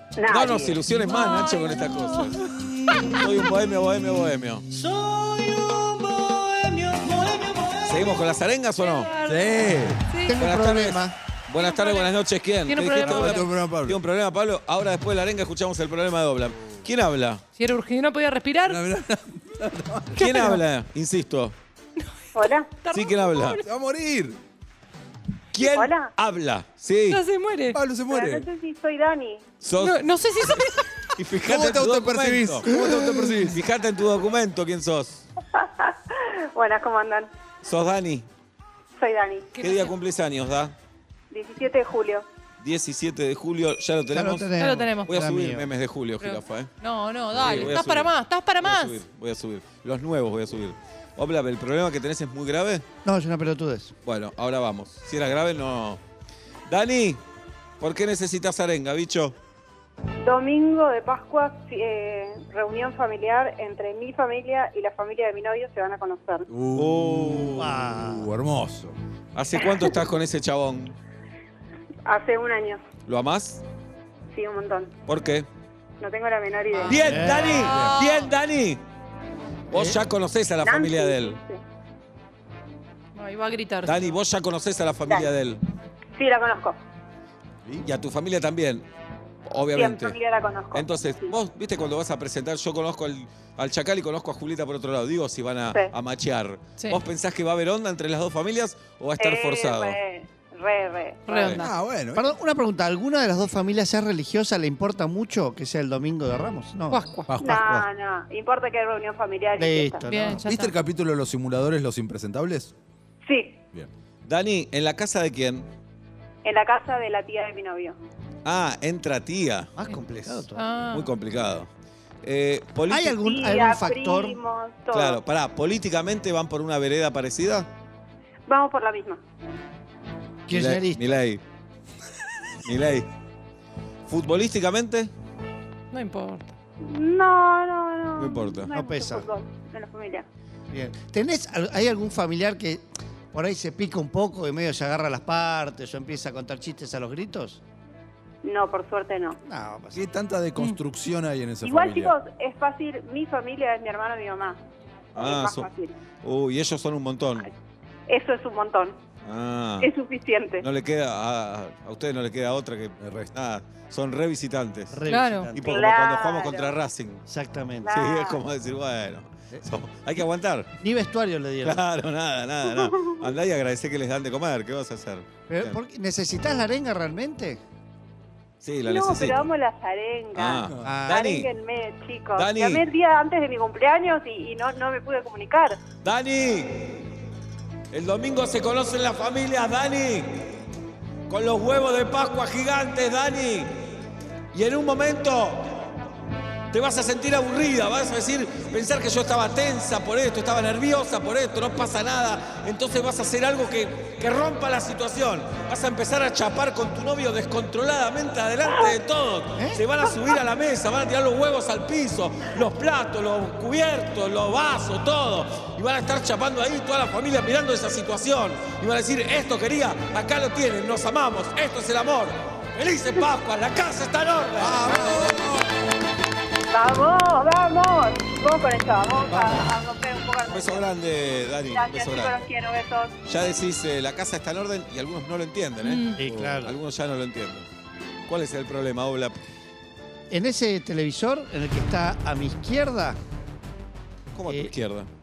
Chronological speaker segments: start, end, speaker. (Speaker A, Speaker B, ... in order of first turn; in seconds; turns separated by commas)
Speaker A: 0.3-4.7, Speaker B: 1.1-1.6, Speaker A: 7.8-9.1, Speaker B: 8.8-9.5, Speaker C: 9.2-10.0, Speaker B: 10.1-10.4, Speaker D: 10.2-11.1, Speaker A: 10.4-17.4, Speaker B: 11.6-12.1, Speaker B: 12.7-13.4, Speaker C: 13.0-14.0, Speaker B: 17.6-18.8, Speaker C: 18.6-20.3, Speaker A: 20.1-21.5, Speaker B: 20.2-20.6, Speaker E: 22.3-22.7, Speaker B: 22.8-23.6, Speaker A: 22.9-23.6, Speaker C: 23.6-24.4, Speaker A: 25.5-27.2, Speaker E: 25.6-26.1, Speaker B: 27.1-27.8, Speaker C: 27.7-28.5, Speaker E: 28.1-29.4, Speaker A: 29.6-30.6, Speaker B: 29.8-30.9, Speaker A: 31.1-35.2, Speaker C: 31.4-33.6, Speaker E: 35.6-35.9, Speaker E: 36.5-37.3, Speaker A: 37.6-38.3, Speaker E: 39.0-39.5, Speaker B: 39.5-39.9, Speaker A: 39.6-40.7, Speaker E: 41.3-42.2, Speaker A: 42.6-44.5, Speaker D: 44.1-45.7, Speaker B: 44.6-45.1, Speaker A: 45.0-46.7, Speaker B: 46.2-49.0, Speaker A: 47.3-52.8, Speaker D: 53.0-53.9, Speaker A: 54.0-56.0, Speaker A: 56.7-57.2, Speaker A: 57.8-59.3, Speaker E: 60.2-66.4, Speaker C: 66.5-69.0, Speaker A: 66.7-67.7, Speaker D: 67.5-68.3, Speaker A: 69.3-71.0, Speaker E: 72.0-72.8, Speaker A: 73.1-73.6, Speaker E: 74.3-74.9, Speaker A: 75.1-75.5, Speaker E: 76.0-77.2, Speaker B: 76.8-78.3, Speaker A: 76.9-78.8, Speaker D: 77.0-77.9, Speaker A: 79.7-81.4, Speaker D: 79.7-80.0, Speaker E: 80.6-81.6, Speaker B: 83.2-84.0, Speaker A: 83.8-85.6, Speaker E: 86.2-86.8, Speaker C: 87.6-87.9, Speaker A: 87.8-88.8, Speaker A: 89.5-90.2, Speaker E: 89.7-91.3, Speaker A: 90.7-100.0, Speaker E: 99.2-101.5, Speaker B: 101.3-101.7, Speaker A: 101.3-101.6, Speaker C: 101.5-102.3, Speaker D: 102.1-107.8, Speaker B: 106.9-107.3, Speaker C: 107.3-107.8, Speaker E: 107.4-110.0, Speaker D: 109.6-110.4, Speaker B: 110.1-110.7, Speaker C: 110.4-112.7, Speaker E: 113.2-113.6, Speaker A: 114.2-115.7, Speaker E: 116.4-118.0, Speaker A: 118.4-120.4, Speaker D: 119.8-120.6, Speaker B: 120.5-121.1, Speaker A: 120.9-121.7, Speaker A: 122.2-123.2, Speaker D: 122.9-124.4, Speaker E: 123.2-125.2, Speaker A: 124.9-127.7, Speaker E: 128.5-129.2, Speaker D: 130.5-131.0, Speaker A: 130.5-131.4, Speaker A: 132.6-133.1, Speaker A: 134.1-135.1, Speaker B: 135.9-136.5, Speaker E: 136.8-140.2, Speaker A: 138.2-138.7, Speaker D: 138.7-139.3, Speaker D: 140.7-147.6, Speaker E: 148.4-149.4, Speaker D: 149.4-150.1, Speaker C: 149.9-152.1, Speaker E: 151.6-154.6, Speaker A: 155.1-155.7, Speaker E: 155.1-155.9, Speaker A: 156.2-157.5, Speaker E: 158.1-158.9, Speaker A: 159.2-159.9, Speaker E: 159.8-160.6, Speaker A: 160.6-165.0, Speaker C: 163.0-163.3, Speaker D: 164.9-165.9, Speaker B: 165.1-165.5, Speaker A: 165.5-167.2, Speaker E: 165.7-166.7, Speaker D: 167.3-168.0, Speaker E: 167.8-168.4, Speaker A: 167.9-170.7, Speaker D: 170.8-171.8, Speaker A: 171.6-175.8, Speaker D: 175.5-177.6, Speaker A: 178.6-179.5, Speaker E: 178.8-185.8, Speaker A: 180.3-181.5, Speaker D: 180.8-181.3, Speaker A: 182.3-182.8, Speaker A: 186.0-187.0, Speaker A: 187.9-190.5, Speaker A: 191.3-193.8, Speaker A: 194.5-195.9, Speaker A: 196.7-225.6, Speaker C: 224.6-225.5, Speaker E: 226.7-230.9, Speaker A: 229.3-229.6, Speaker A: 230.5-232.4, Speaker E: 231.7-233.1, Speaker A: 233.3-237.7, Speaker B: 235.8-236.2, Speaker D: 236.2-236.7, Speaker C: 236.3-236.6, Speaker A: 238.3-239.4, Speaker D: 240.3-243.2, Speaker A: 244.3-245.1, Speaker D: 244.5-244.7